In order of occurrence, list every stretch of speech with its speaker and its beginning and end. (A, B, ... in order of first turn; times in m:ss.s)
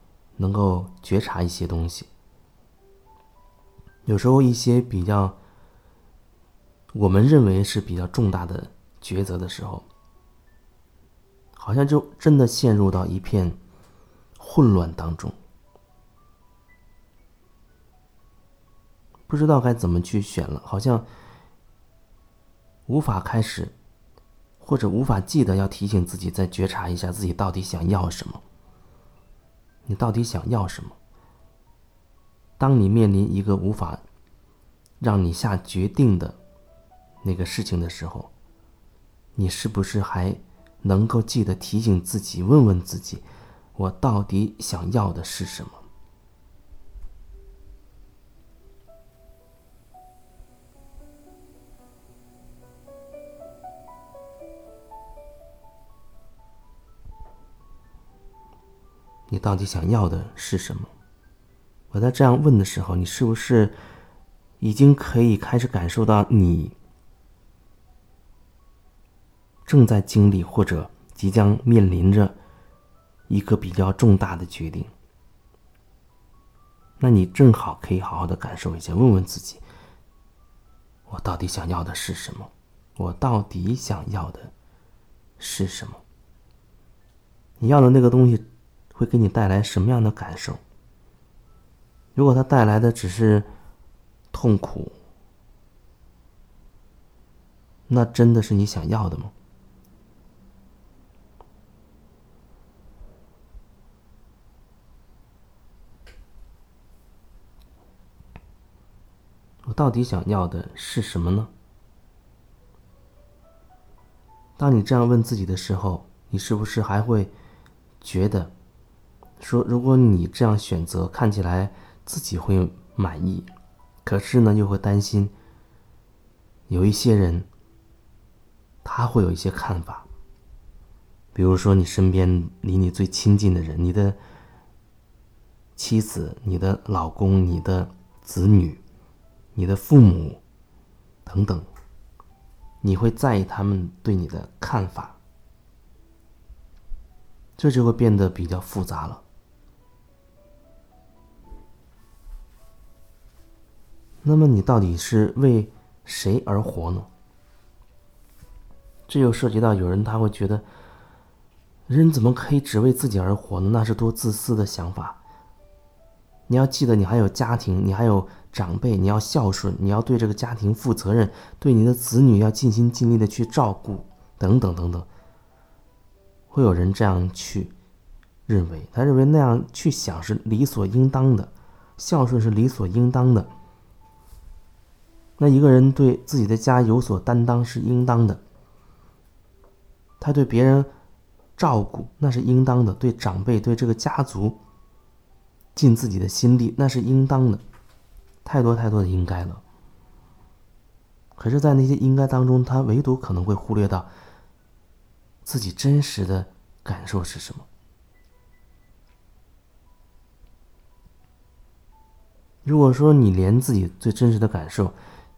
0:00.4-0:02.1 A
0:04.0-0:05.4 A
0:06.9-0:09.9 A
0:11.6-0:13.6 A
0:14.4-0:15.4 A
0:19.3-0:21.1 A
0:22.9-0:23.7 A
0:24.6-0:28.4 A
0:29.8-0:31.0 A
0:32.6-0:34.0 A
0:35.0-0:36.4 A
0:37.2-0:38.3 A
0:39.4-0:45.8 A
0:59.3-1:00.9 A
1:01.9-1:03.8 A
1:04.6-1:06.8 A
1:09.7-1:12.4 A
1:13.3-1:14.9 A
1:17.0-1:19.6 A
1:21.1-1:24.5 A
1:25.4-1:26.0 A
1:27.6-1:30.6 A
1:32.2-1:33.5 A
1:34.3-1:35.0 A
1:37.9-1:39.3 A
1:49.6-1:51.5 A
1:54.6-1:57.3 A
1:58.0-1:58.5 A
1:59.4-2:03.5 A
2:04.0-2:05.3 A
2:06.7-2:07.5 A
2:08.8-2:10.1 A
2:11.4-2:14.2 A
2:15.8-2:18.8 A
2:19.6-2:20.4 A
2:21.3-2:21.7 A
2:22.8-2:25.2 A
2:27.6-2:29.2 A
2:34.2-2:37.1 A
2:39.1-2:40.7 A
2:41.9-2:45.2 A
2:46.5-2:55.1 A
2:56.5-2:57.7 A
2:58.5-3:03.5 A
3:05.4-3:08.4 A
3:10.2-3:10.9 A
3:11.6-3:14.6 A
3:15.8-3:17.6 A
3:18.4-3:19.6 A
3:21.4-3:24.1 A
3:25.4-3:27.7 A
3:32.6-3:35.0 A